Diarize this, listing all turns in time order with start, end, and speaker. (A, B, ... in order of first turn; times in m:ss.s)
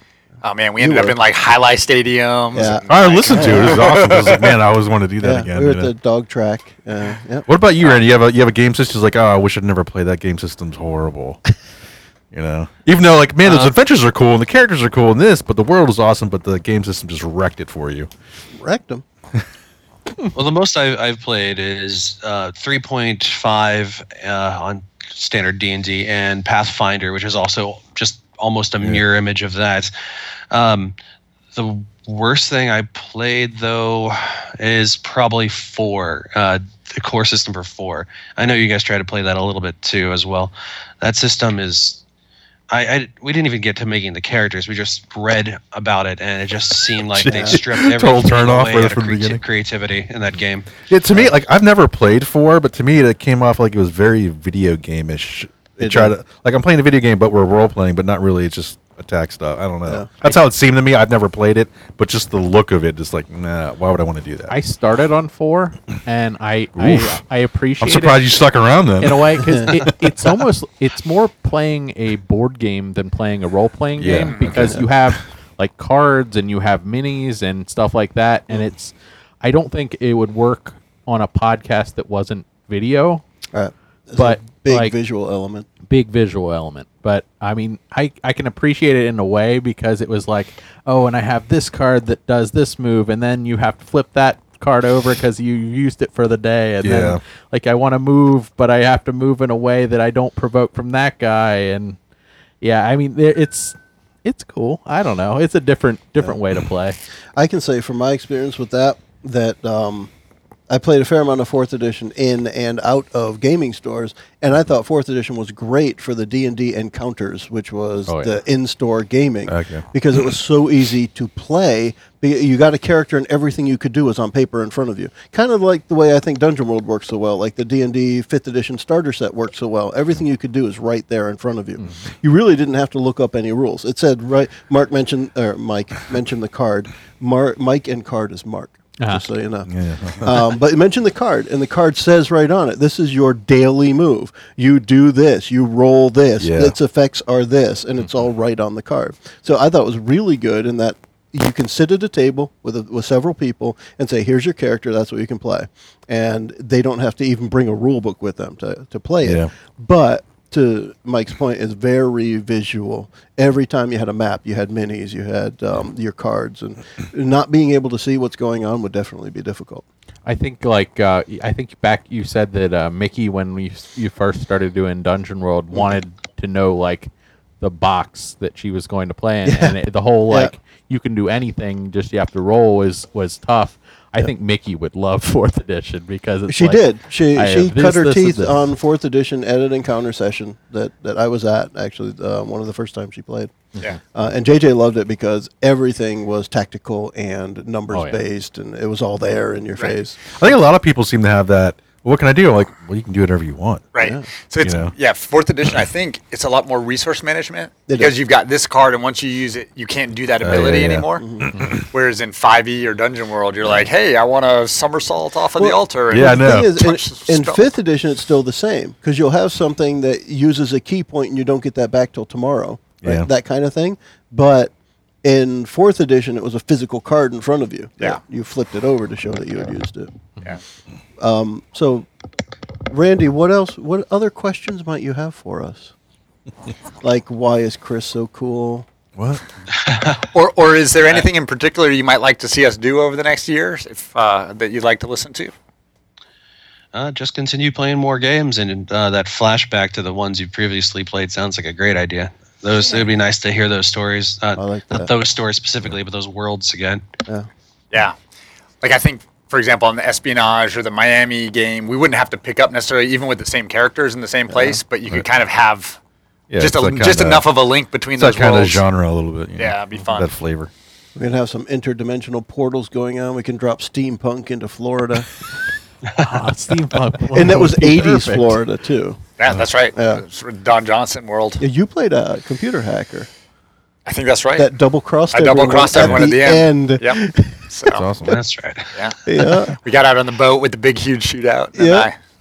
0:00.4-0:04.6 A
0:00.8-0:01.2 B
0:02.5-0:03.8 B
0:02.9-0:05.9 C
0:05.2-0:07.4 B
0:07.5-0:11.4 C
0:12.3-0:18.1 C
0:18.6-0:19.0 B
0:20.3-0:29.9 D
0:30.5-0:30.9 D
0:31.5-0:42.0 D
0:42.7-0:50.7 D
0:47.1-0:49.4 C
0:47.2-0:47.6 B
0:50.9-0:51.3 B
0:51.1-1:04.5 C
0:55.8-0:56.1 B
1:04.5-1:08.4 E
1:06.8-1:07.2 C
1:07.8-1:09.2 C
1:09.0-1:23.2 E
1:09.5-1:09.7 B
1:14.0-1:14.8 C
1:14.1-1:14.7 A
1:14.5-1:14.8 B
1:23.5-1:25.7 B
1:24.2-1:24.9 E
1:25.8-1:42.0 E
1:36.8-1:37.2 C
1:42.6-1:47.0 E
1:47.4-1:50.1 B
1:50.7-2:49.8 B
1:58.1-1:58.4 E
1:59.5-1:59.8 C
2:19.7-2:20.4 C
2:26.4-2:26.8 C
2:39.2-2:39.5 C
2:50.2-3:08.7 E
2:59.4-2:59.8 B
3:06.5-3:13.5 B
3:14.1-3:20.2 B
3:17.9-3:18.2 E
3:20.4-3:23.9 C
3:23.9-3:37.7 A
3:24.0-3:24.3 B
3:24.6-3:24.9 C
3:27.9-3:28.1 B
3:30.4-3:31.8 C
3:30.5-3:31.6 B
3:35.6-3:44.7 B
3:36.1-3:36.7 C
3:43.0-3:43.3 C
3:45.2-3:50.1 B
3:51.2-3:52.1 B
3:52.9-3:55.9 B
3:57.0-3:58.9 B
3:59.2-3:59.4 C
3:59.8-4:00.3 D
4:00.3-4:05.5 A
4:06.9-4:17.0 D
4:14.6-4:15.1 B
4:18.8-4:26.0 A
4:24.5-4:24.8 B
4:26.5-4:27.5 C
4:26.6-4:28.8 A
4:28.2-4:30.7 C
4:29.6-4:30.3 A
4:31.2-4:35.3 B
4:36.2-4:38.6 E
4:37.3-4:39.2 B
4:39.4-4:41.6 A
4:39.9-4:40.2 B
4:41.6-4:43.3 B
4:44.0-4:44.7 A
4:44.6-4:47.7 B
4:45.3-4:48.0 A
4:45.9-4:46.2 C
4:47.9-4:48.4 C
4:48.2-4:48.9 D
4:48.9-4:49.3 A
4:49.2-4:49.8 B
4:49.8-4:52.1 A
4:51.8-4:52.1 B